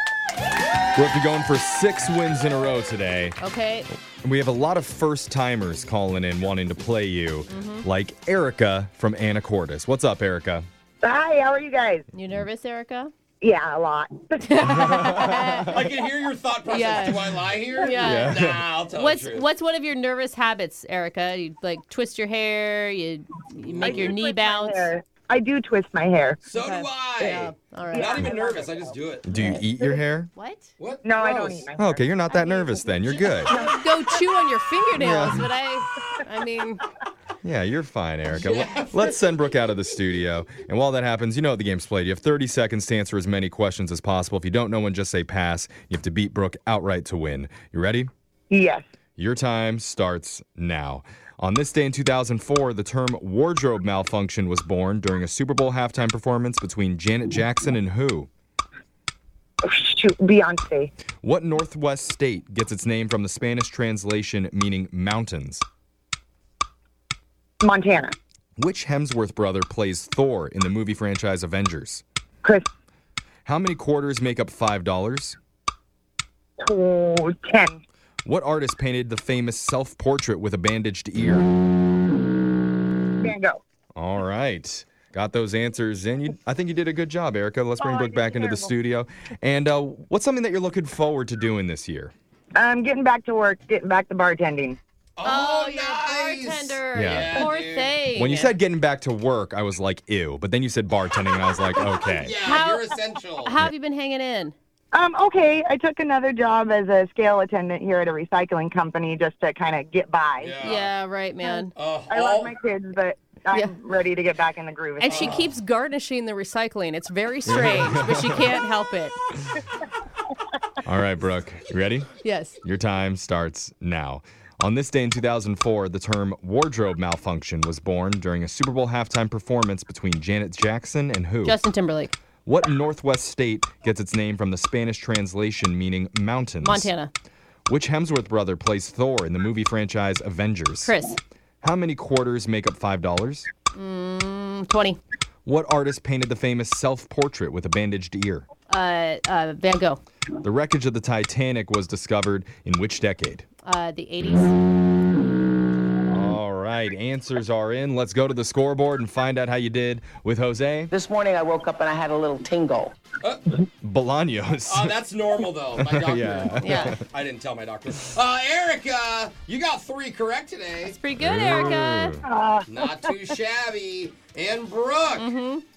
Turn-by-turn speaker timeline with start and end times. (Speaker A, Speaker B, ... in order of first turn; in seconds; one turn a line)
Speaker A: 0.9-3.4
Speaker B: 3.4-3.9
Speaker A: 4.2-10.7
Speaker B: 7.5-7.8
Speaker C: 11.0-12.1
Speaker B: 12.1-13.1
Speaker C: 13.4-14.7
Speaker B: 14.4-15.8
Speaker A: 14.7-15.7
Speaker D: 15.6-19.5
Speaker B: 16.7-18.4
Speaker A: 18.0-18.7
Speaker B: 18.9-24.9
Speaker D: 23.6-24.2
Speaker C: 23.8-26.4
Speaker D: 26.4-29.2
Speaker B: 26.5-28.3
Speaker C: 27.9-28.9
Speaker A: 29.2-30.3
Speaker B: 29.3-29.6
Speaker B: 30.3-30.7
Speaker D: 30.8-31.7
Speaker C: 31.0-33.8
Speaker A: 31.8-33.6
Speaker B: 33.5-36.8
Speaker A: 35.0-35.5
Speaker A: 37.4-48.1
Speaker D: 38.3-39.2
Speaker C: 48.5-48.8
Speaker A: 49.2-58.3
Speaker C: 59.6-60.9
Speaker A: 61.2-65.6
Speaker C: 67.6-68.1
Speaker A: 68.6-72.0
Speaker A: 73.4-75.4
Speaker C: 76.6-77.8
Speaker A: 78.2-81.5
Speaker C: 83.2-83.6
Speaker A: 84.0-92.1
Speaker C: 87.8-88.7
Speaker C: 92.6-94.8
Speaker D: 95.2-98.0
Speaker B: 95.2-98.5
Speaker A: 96.9-97.4
Speaker A: 98.1-102.4
Speaker D: 101.9-103.5
Speaker B: 102.4-104.5
Speaker C: 104.9-110.6
Speaker D: 110.4-110.9
Speaker B: 110.6-111.7
Speaker D: 111.7-112.5
Speaker C: 112.1-115.4
Speaker B: 115.0-119.2
Speaker D: 115.0-115.5
Speaker A: 117.5-118.5
Speaker A: 120.8-122.1
Speaker B: 122.2-122.6
Speaker A: 122.6-131.6
Speaker B: 131.4-132.1
Speaker A: 132.4-136.9
Speaker B: 136.6-137.1
Speaker A: 137.7-140.9
Speaker B: 140.8-141.2
Speaker A: 141.6-143.5
Speaker B: 143.7-145.0
Speaker A: 145.4-148.4
Speaker B: 148.7-150.0
Speaker A: 150.4-153.4
Speaker B: 153.6-154.5
Speaker A: 156.1-160.9
Speaker E: 160.9-162.9
Speaker D: 163.2-163.5
Speaker A: 163.8-164.9
Speaker D: 164.7-171.0
Speaker A: 165.8-167.0
Speaker B: 166.6-167.0
Speaker B: 170.8-172.2
Speaker A: 171.2-172.2
Speaker C: 172.3-173.1
Speaker D: 172.7-175.3
Speaker B: 175.1-175.6